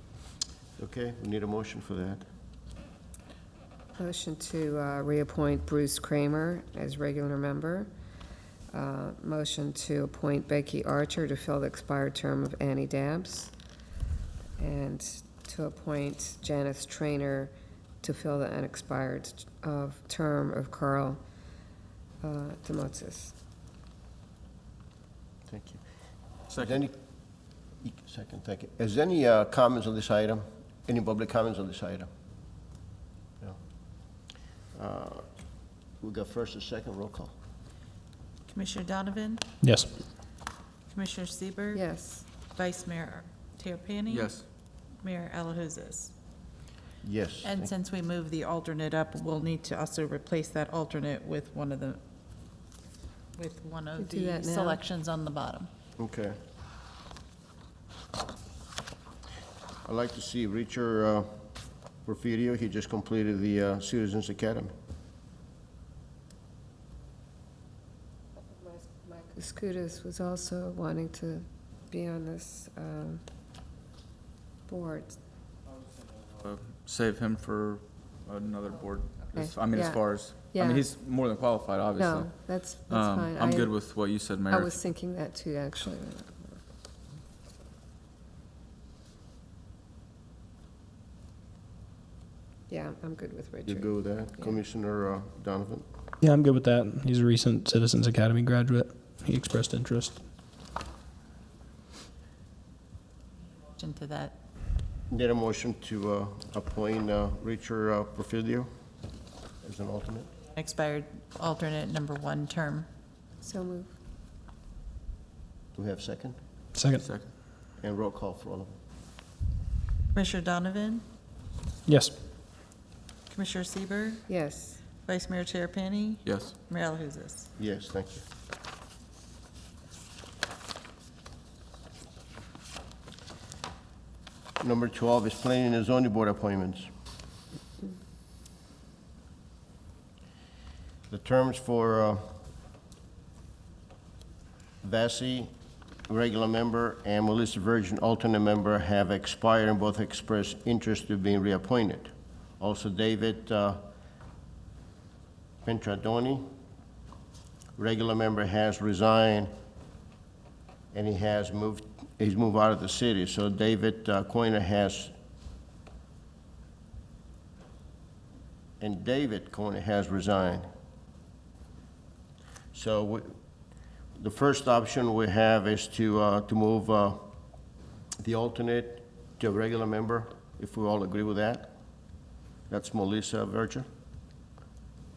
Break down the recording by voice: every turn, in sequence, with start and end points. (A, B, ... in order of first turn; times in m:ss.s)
0:00.8-0:02.2 A
0:04.0-0:07.9 B
0:08.7-0:13.5 B
0:14.6-0:21.2 B
0:22.2-0:23.3 B
0:25.5-0:25.8 A
0:26.5-0:26.9 A
0:27.8-0:32.1 A
0:34.7-0:35.2 A
0:36.0-0:37.3 A
0:38.5-0:39.4 C
0:39.6-0:39.9 D
0:40.9-0:41.8 C
0:41.7-0:42.3 B
0:42.5-0:44.4 C
0:44.1-0:44.4 E
0:45.0-0:46.1 C
0:47.0-0:47.7 A
0:47.4-0:52.0 C
0:53.4-0:55.7 C
0:54.0-0:54.8 B
0:56.0-0:56.4 A
0:59.8-1:01.3 A
1:02.0-1:04.7 A
1:08.5-1:13.2 B
1:14.7-1:15.2 B
1:16.2-1:24.8 E
1:19.2-1:20.9 B
1:22.0-1:23.8 B
1:24.5-1:26.6 B
1:32.7-1:34.6 B
1:33.6-1:35.8 A
1:36.2-1:40.2 D
1:43.7-1:44.4 C
1:45.1-1:48.7 A
1:49.6-1:50.3 A
1:50.5-1:52.9 C
1:53.4-1:53.9 B
1:55.7-1:56.4 A
1:56.7-1:57.0 D
1:57.0-1:57.3 E
1:57.8-1:58.8 A
2:00.1-2:01.0 C
2:01.8-2:02.1 D
2:03.3-2:04.2 C
2:04.3-2:04.8 B
2:05.0-2:07.5 C
2:06.2-2:06.6 E
2:07.6-2:08.2 A
2:14.6-2:16.9 A
2:21.1-2:22.2 A
2:24.8-2:25.5 A
2:26.1-2:33.8 A
2:35.6-2:36.4 A
2:37.8-2:39.5 A
2:40.9-2:45.1 A
2:48.8-2:50.7 A
2:52.7-2:53.4 A
2:54.2-2:57.2 A
2:58.2-3:01.7 A
3:02.7-3:03.9 A